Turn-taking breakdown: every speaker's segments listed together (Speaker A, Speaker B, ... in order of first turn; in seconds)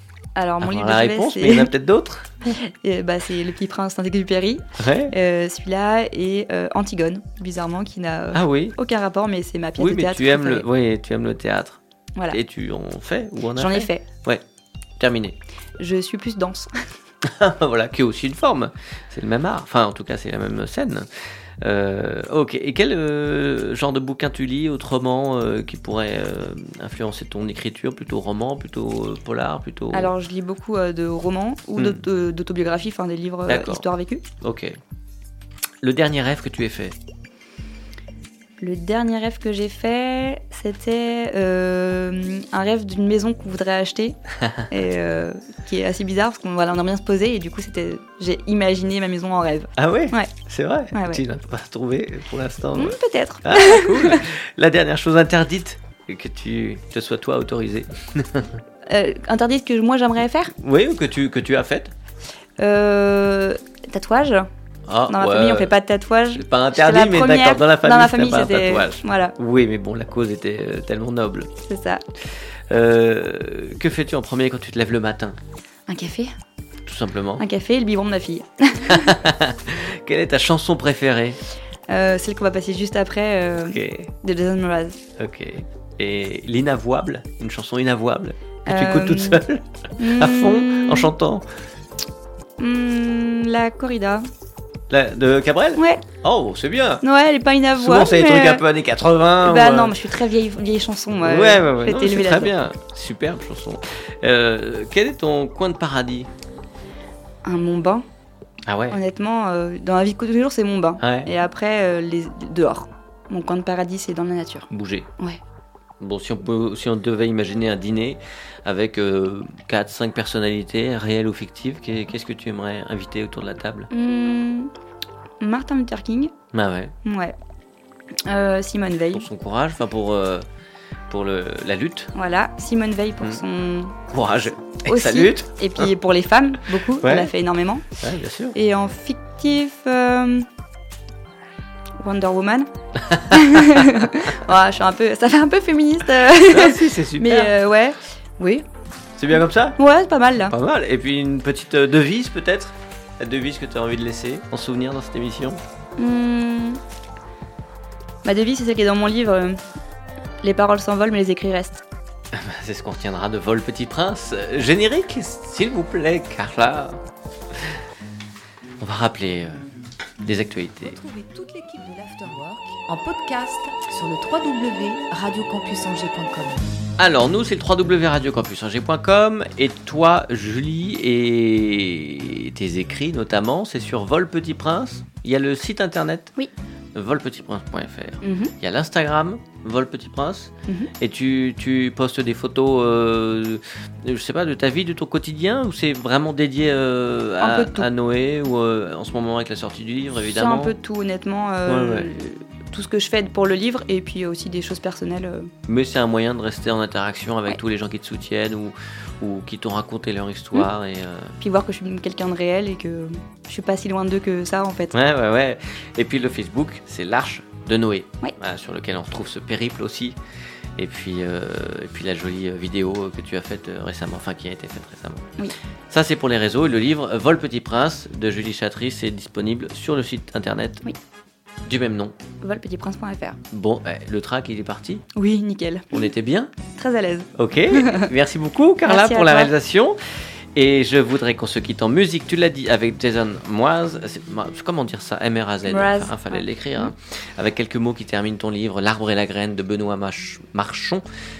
Speaker A: 0.4-1.7, 2.4-10.6, 13.6-14.1, 15.8-16.7, 29.9-34.2, 38.6-44.2, 44.7-50.3, 50.9-51.2, 52.8-54.3, 58.9-60.5, 62.6-64.5, 65.1-69.3, 71.6-72.0, 75.9-76.3, 77.4-79.2, 81.9-85.0, 88.7-89.4, 90.0-91.1, 92.6-94.2, 95.8-96.0, 97.0-98.6, 99.4-102.6, 107.4-108.0, 108.9-115.4, 123.9-124.7, 125.4-126.3, 127.0-127.4, 128.2-129.3, 132.1-134.0, 134.8-137.9, 138.5-140.5, 142.0-148.6, 149.8-150.5, 156.0-156.8, 158.2-159.6, 160.4-161.8, 188.2-188.5, 197.4-197.9, 200.3-205.5, 211.4-214.9, 232.4-233.4, 235.1-236.1, 236.7-238.1, 238.8-239.5, 245.7-246.9
Speaker B: 0.6-2.4, 4.8-5.1, 8.3-8.8, 9.8-14.4, 15.0-15.4, 17.2-30.1, 31.8-32.0, 33.5-33.9, 34.4-34.8, 35.8-37.0, 44.4-44.7, 49.8-58.6, 60.6-61.9, 64.9-65.7, 66.3-71.5, 72.2-75.4, 76.8-77.4, 78.9-81.4, 83.6-84.1, 85.2-91.6, 94.9-97.0, 97.7-100.0, 101.2-106.3, 108.7-109.0, 111.0-111.3, 114.7-115.1, 116.0-123.9, 126.5-126.9, 129.1-130.4, 131.1-132.1, 134.1-135.9, 137.0-137.3, 138.0-138.6, 142.9-144.1, 146.4-147.6, 149.2-149.8, 150.5-155.6, 162.3-167.8, 168.8-169.7, 170.2-171.0, 177.0-186.3, 186.9-200.7, 201.7-202.1, 205.7-211.4, 214.9-220.2, 220.8-230.9, 231.6-232.2, 233.5-235.1, 235.9-236.5, 237.4-251.1
Speaker C: 170.8-176.7